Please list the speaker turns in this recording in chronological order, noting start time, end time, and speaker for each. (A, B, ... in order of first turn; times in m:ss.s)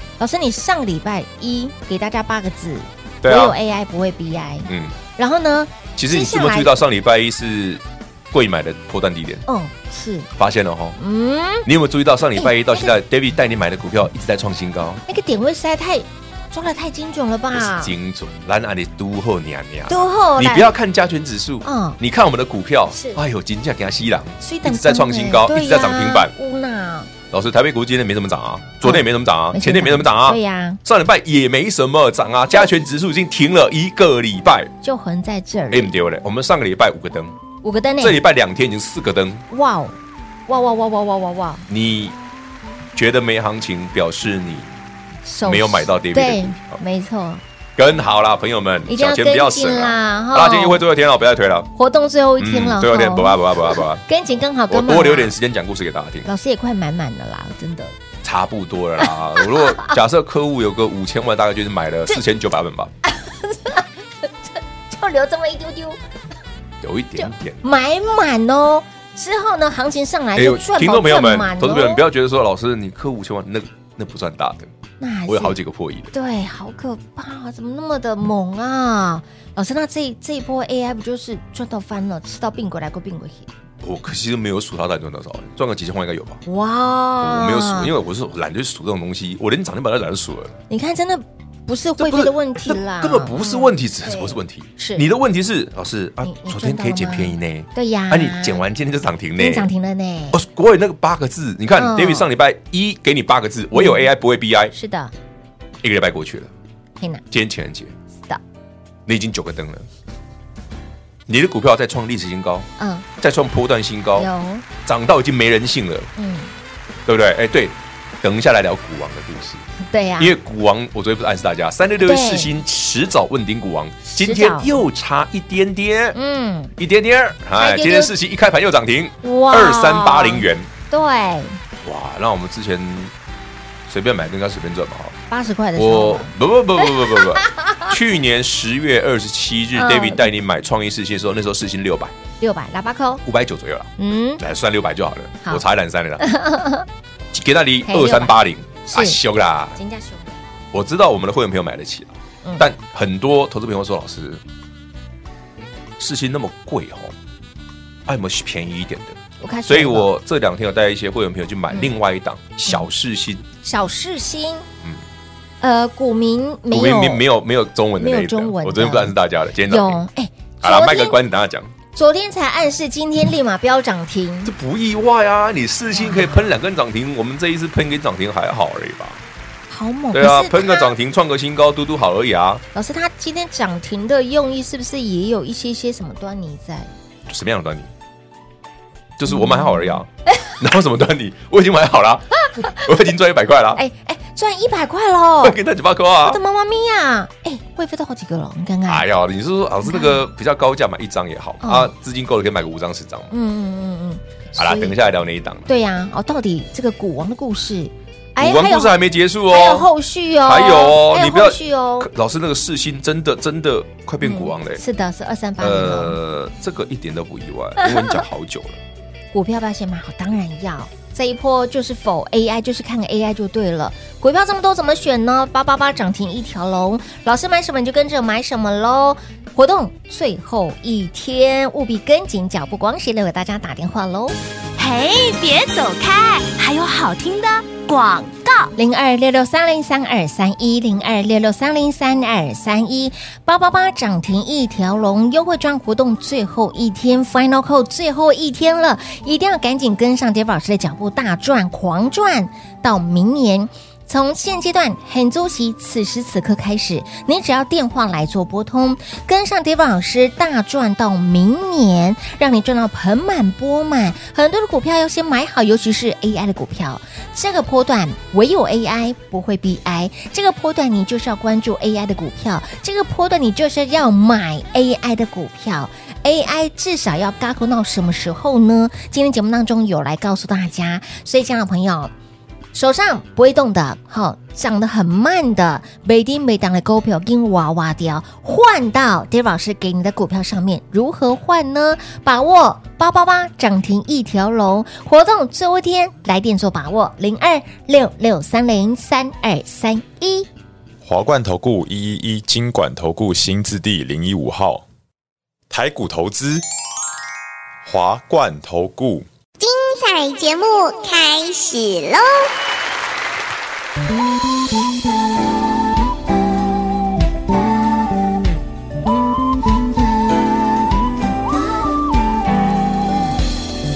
0:00.2-0:06.8 A
0:03.2-0:03.6 B
0:04.7-0:05.0 B
0:06.0-0:09.4 B
0:09.5-0:10.3 A
0:10.4-0:11.0 B
0:11.0-0:11.7 A
0:11.7-0:15.0 B
0:12.4-0:13.0 A
0:15.1-0:17.9 A
0:17.5-0:26.3 B
0:19.9-0:20.7 A
0:21.6-0:22.0 A
0:22.9-0:23.2 A
0:24.4-0:27.1 A
0:27.3-0:34.7 B
0:28.8-0:30.8 A
0:34.8-0:35.9 A
0:35.7-0:37.4 B
0:37.6-0:38.2 A
0:38.0-0:39.4 B
0:39.5-0:41.7 A
0:41.7-0:42.2 B
0:43.0-0:44.8 B
0:45.2-0:47.4 A
0:45.4-0:46.8 B
0:47.8-0:51.7 B
0:48.9-0:50.8 A
0:51.8-0:55.3 A
0:52.4-0:54.0 B
0:54.7-0:56.3 B
0:56.2-0:57.9 A
0:58.2-1:02.9 B
0:59.0-1:00.0 A
1:03.0-1:06.0 A
1:06.8-1:07.6 B
1:07.2-1:12.0 A
1:10.4-1:14.7 B
1:15.0-1:15.6 A
1:15.3-1:16.1 B
1:16.1-1:23.5 A
1:23.8-1:26.4 B
1:26.5-1:27.9 A
1:27.2-1:30.6 B
1:30.7-1:35.0 A
1:32.0-1:39.7 B
1:36.2-1:38.6 A
1:39.4-1:40.4 A
1:40.3-1:44.7 B
1:41.8-1:42.3 A
1:43.7-1:44.1 A
1:44.7-1:45.1 A
1:45.8-1:46.5 B
1:47.0-1:47.2 A
1:47.3-1:47.9 B
1:49.1-1:49.9 B
1:51.3-1:52.7 B
1:52.8-1:53.1 A
1:53.2-1:54.3 B
1:54.2-1:54.7 A
1:54.8-1:56.1 B
1:56.2-1:56.5 A
1:57.1-1:59.6 B
1:59.8-2:00.4 A
2:00.2-2:06.2 B
2:02.0-2:02.5 A
2:04.1-2:04.8 A
2:06.1-2:06.7 A
2:06.8-2:10.7 B
2:07.6-2:08.1 A
2:09.2-2:11.6 A
2:11.8-2:13.1 B
2:13.9-2:15.2 B
2:15.3-2:17.9 A
2:15.8-2:22.1 B
2:19.8-2:20.2 A
2:22.4-2:23.2 A
2:23.2-2:26.3 B
2:24.0-2:24.4 A
2:26.2-2:26.9 A
2:27.3-2:29.8 B
2:27.9-2:29.2 A
2:29.8-2:30.4 A
2:30.7-2:34.4 B
2:36.0-2:37.1 B
2:38.1-2:43.4 B
2:39.4-2:40.1 A
2:43.6-2:44.7 A
2:45.6-2:47.2 A
2:46.7-2:50.0 B
2:48.0-2:49.2 A
2:49.7-2:51.2 A
2:50.6-2:51.7 B
2:51.9-2:54.5 A
2:54.4-2:59.2 B
2:55.9-2:56.5 A
2:59.7-3:00.9 A
3:00.1-3:02.6 B
3:02.7-3:06.9 A
3:07.3-3:07.9 B
3:09.2-3:13.8 B
3:09.3-3:10.5 A
3:12.5-3:12.8 A
3:13.8-3:15.6 A
3:15.4-3:16.4 B
3:16.2-3:19.0 A
3:18.9-3:23.3 B
3:19.8-3:20.3 A
3:21.6-3:21.9 A
3:23.3-3:25.0 A
3:24.6-3:25.7 B
3:25.7-3:29.0 A
3:28.4-3:29.9 B
3:29.5-3:32.1 A
3:30.4-3:34.8 B
3:34.2-3:36.2 A
3:35.6-3:38.8 B
3:37.8-3:38.2 A
3:39.3-3:54.4 A
3:54.8-3:58.7 C
3:58.8-4:42.1 A
4:42.7-5:00.5 A
5:01.0-5:04.8 D
5:05.7-5:06.6 D
5:07.8-5:09.3 D
5:09.6-5:12.5 E